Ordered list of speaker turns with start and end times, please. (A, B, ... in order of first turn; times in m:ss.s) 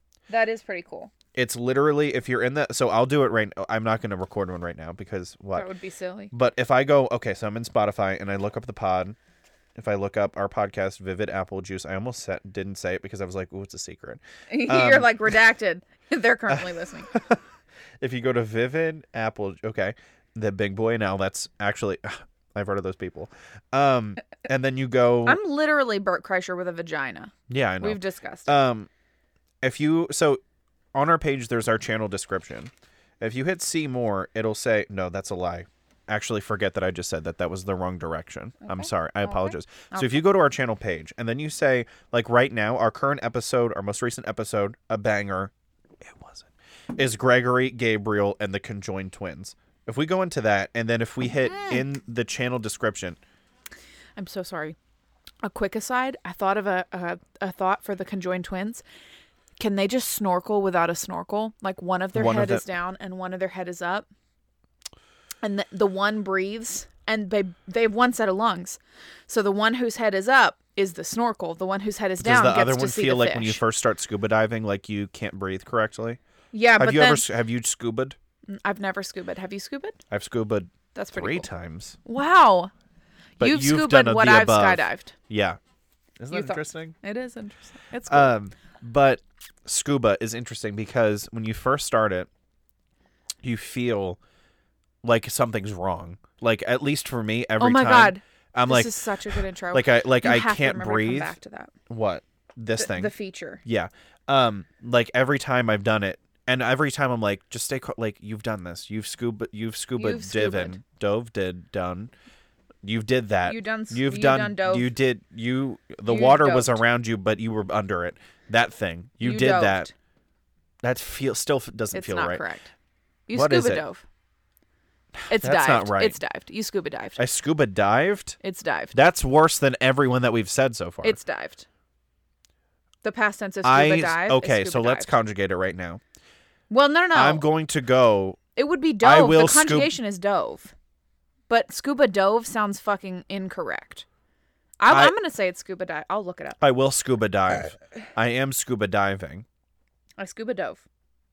0:00.3-0:01.1 A
0:01.3-0:05.7 B
0:05.5-0:06.3 A
0:06.3-0:09.2 B
0:09.8-0:15.1 B
0:14.5-0:17.1 A
0:16.5-0:17.4 B
0:18.0-0:25.4 B
0:25.2-0:28.6 A
0:27.5-0:28.9 B
0:29.6-0:30.4 B
0:30.9-0:45.5 B
0:38.6-0:40.3 A
0:46.0-0:53.2 B
0:54.2-0:54.8 A
0:55.4-0:58.8 A
0:59.6-1:04.1 A
1:02.1-1:02.6 B
1:05.4-1:13.6 A
1:12.2-1:16.2 B
1:16.5-1:17.3 A
1:16.8-1:18.2 B
1:18.5-1:20.0 A
1:20.1-1:22.0 B
1:20.9-1:21.5 A
1:22.0-1:22.7 A
1:23.4-1:25.1 A
1:23.4-1:25.6 B
1:26.2-1:26.9 B
1:26.3-1:28.3 A
1:28.1-1:32.3 B
1:33.4-1:34.2 B
1:35.0-1:39.0 B
1:37.6-1:41.7 A
1:39.7-1:41.4 B
1:41.9-1:43.1 B
1:42.8-1:43.6 A
1:43.6-1:52.1 B
1:50.0-1:50.8 A
1:52.8-1:59.9 B
1:53.4-1:54.9 A
1:56.0-1:56.8 A
1:59.2-1:59.9 A
2:00.8-2:02.4 B
2:01.9-2:02.7 A
2:03.3-2:04.0 A
2:03.3-2:03.8 B
2:05.1-2:06.2 B
2:05.3-2:07.2 A
2:07.2-2:08.4 B
2:08.4-2:09.0 A
2:08.9-2:11.2 B
2:11.0-2:11.7 A
2:13.0-2:15.1 A
2:13.6-2:16.0 B
2:16.7-2:17.5 A
2:17.1-2:18.4 B
2:18.5-2:20.7 A
2:19.0-2:19.9 B
2:21.5-2:24.0 A
2:24.8-2:26.6 A
2:24.9-2:25.1 B
2:26.6-2:29.4 B
2:30.2-2:30.8 A